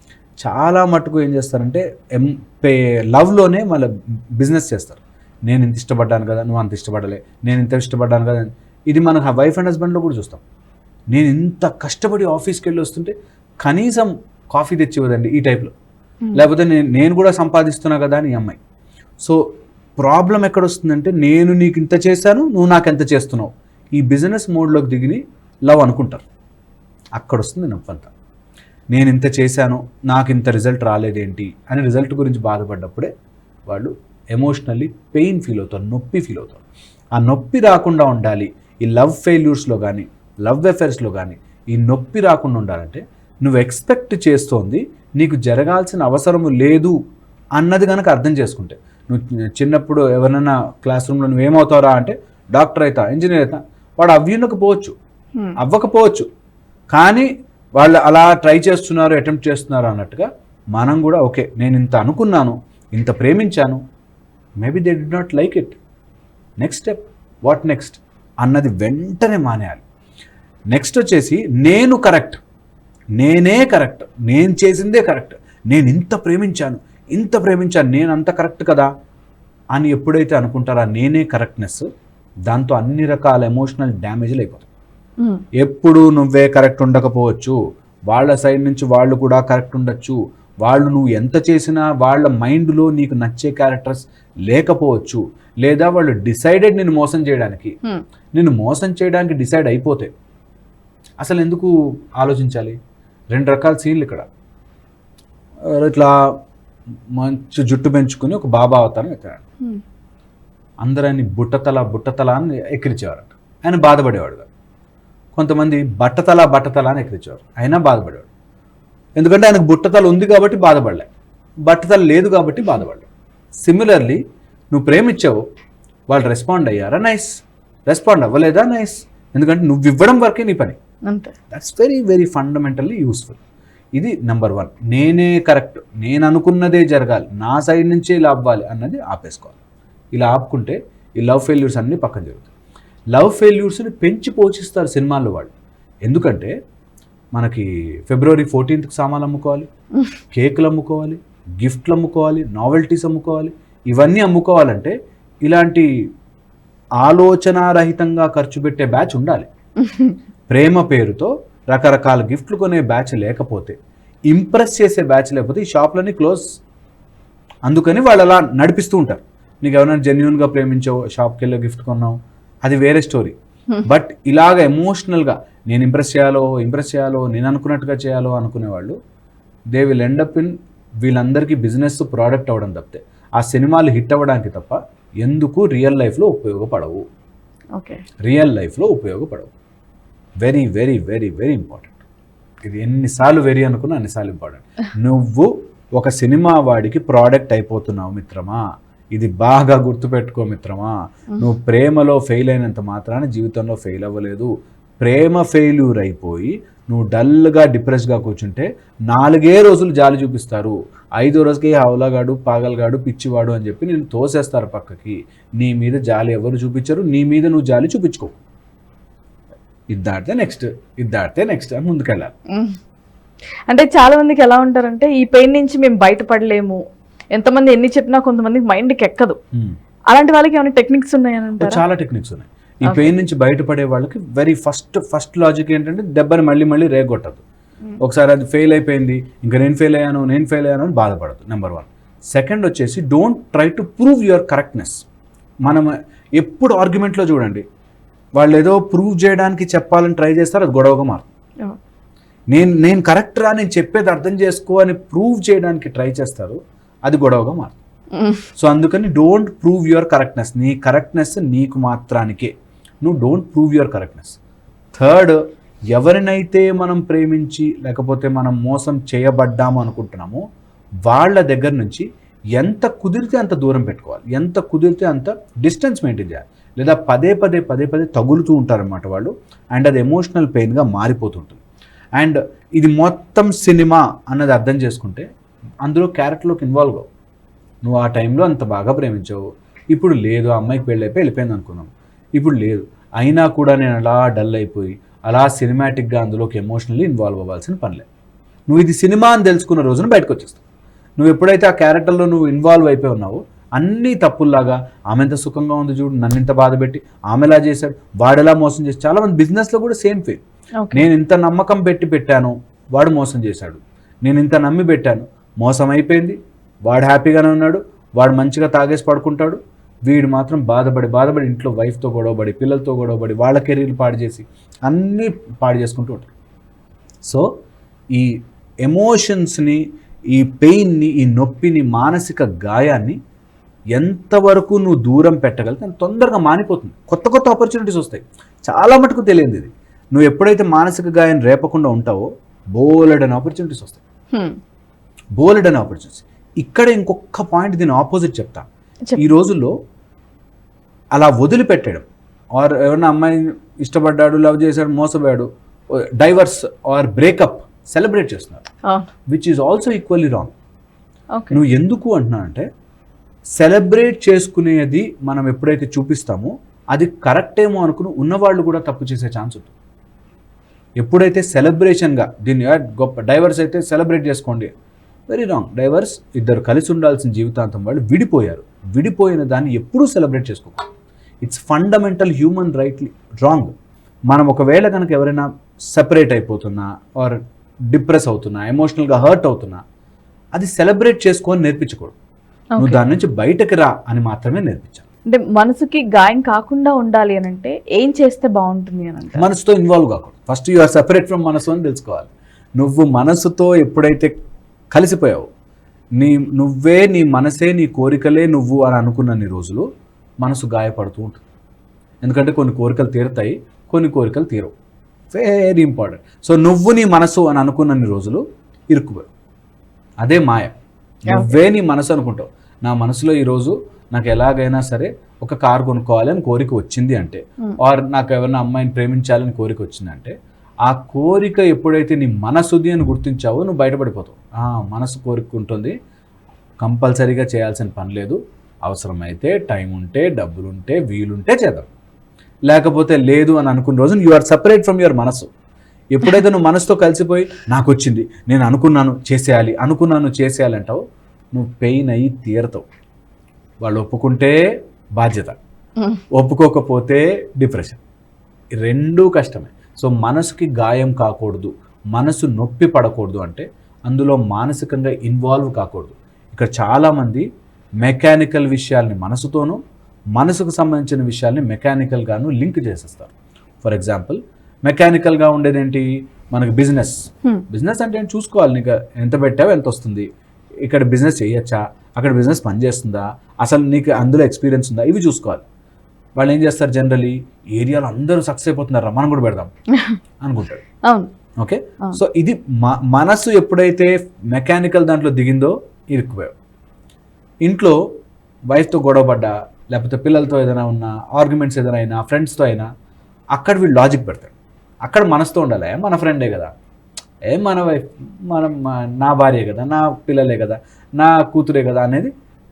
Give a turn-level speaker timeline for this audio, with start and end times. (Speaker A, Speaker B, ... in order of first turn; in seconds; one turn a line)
Speaker A: 0.4-10.4
Speaker A: 11.1-15.7
Speaker A: 16.4-18.6
Speaker A: 20.0-26.2
Speaker A: 27.2-28.1
Speaker A: 28.9-33.1
Speaker A: 33.7-36.6
Speaker A: 37.2-47.0
Speaker A: 47.6-55.0
Speaker A: 55.6-56.3
Speaker A: 56.9-63.8
Speaker A: 64.6-65.8
Speaker A: 66.6-69.8
Speaker A: 70.7-72.4
Speaker A: 73.2-78.9
Speaker A: 79.8-81.9
Speaker A: 82.5-84.7
Speaker A: 85.6-87.6
Speaker A: 88.1-97.8
Speaker A: 98.3-100.1
Speaker A: 101.2-102.8
Speaker A: 103.3-104.3
Speaker A: 105.7-106.3
Speaker A: 107.1-109.4
Speaker A: 110.8-114.5
Speaker A: 115.3-118.3
Speaker A: 119.2-121.1
Speaker A: 121.7-123.1
Speaker A: 123.6-124.2
Speaker A: 124.7-125.4
Speaker A: 126.1-130.8
Speaker B: 131.1-131.3
Speaker A: 131.5-133.4
Speaker A: 133.9-139.6
Speaker A: 140.1-142.5
Speaker A: 143.1-145.5
Speaker A: 146.1-146.5
Speaker A: 147.3-149.7
Speaker A: 150.3-155.9
Speaker A: 157.0-159.5
Speaker B: 159.8-160.2
Speaker A: 160.5-163.8
Speaker A: 164.3-166.4
Speaker A: 167.7-179.0
Speaker A: 179.7-187.0
Speaker B: 187.7-188.0
Speaker A: 188.2-189.5
Speaker A: 190.4-192.0
Speaker A: 192.7-198.6
Speaker A: 199.1-218.4
Speaker A: 219.9-222.3
Speaker B: 222.5-222.8
Speaker B: 223.7-226.8
Speaker B: 227.3-229.4
Speaker B: 230.1-231.8
Speaker A: 231.6-237.4
Speaker B: 232.9-233.1
Speaker A: 238.0-245.0
Speaker A: 245.7-247.6
Speaker A: 248.4-251.3
Speaker A: 252.5-257.8
Speaker B: 258.1-258.4
Speaker A: 258.6-262.5
Speaker A: 263.0-264.4
Speaker A: 264.9-265.4
Speaker A: 265.9-270.4
Speaker A: 271.1-281.6
Speaker A: 282.2-285.3
Speaker A: 285.8-287.1
Speaker A: 287.8-298.1
Speaker A: 298.7-300.6
Speaker A: 301.2-310.4
Speaker B: 310.8-311.1
Speaker A: 310.9-326.3
Speaker A: 327.2-327.5
Speaker A: 328.9-333.2
Speaker A: 334.0-344.0
Speaker B: 344.3-344.6
Speaker A: 345.4-349.8
Speaker A: 351.1-358.6
Speaker B: 358.9-359.1
Speaker A: 359.3-360.5
Speaker B: 361.4-361.6
Speaker A: 361.5-362.7
Speaker A: 363.6-369.7
Speaker A: 371.0-374.7
Speaker A: 375.3-380.9
Speaker A: 381.4-383.7
Speaker A: 384.3-387.4
Speaker A: 387.9-389.8
Speaker A: 390.6-392.1
Speaker A: 392.8-395.1
Speaker B: 395.3-399.4
Speaker A: 399.4-404.3
Speaker A: 404.9-405.5
Speaker A: 406.2-409.9
Speaker A: 410.4-411.4
Speaker A: 412.2-414.7
Speaker A: 415.3-419.3
Speaker A: 420.2-420.8
Speaker A: 421.3-430.3
Speaker B: 421.3-421.6
Speaker A: 430.9-435.9
Speaker A: 436.8-441.9
Speaker A: 442.7-445.5
Speaker A: 446.1-451.0
Speaker A: 451.6-452.9
Speaker A: 453.8-454.6
Speaker A: 455.2-455.6
Speaker A: 456.3-458.0
Speaker A: 458.8-467.5
Speaker A: 468.0-469.8
Speaker A: 470.4-473.3
Speaker A: 473.8-480.3
Speaker A: 480.9-485.6
Speaker A: 486.4-489.7
Speaker B: 489.9-490.2
Speaker A: 490.4-490.8
Speaker B: 491.0-491.3
Speaker A: 491.6-496.5
Speaker A: 497.6-498.0
Speaker A: 498.7-502.9
Speaker A: 503.5-506.7
Speaker A: 507.5-512.3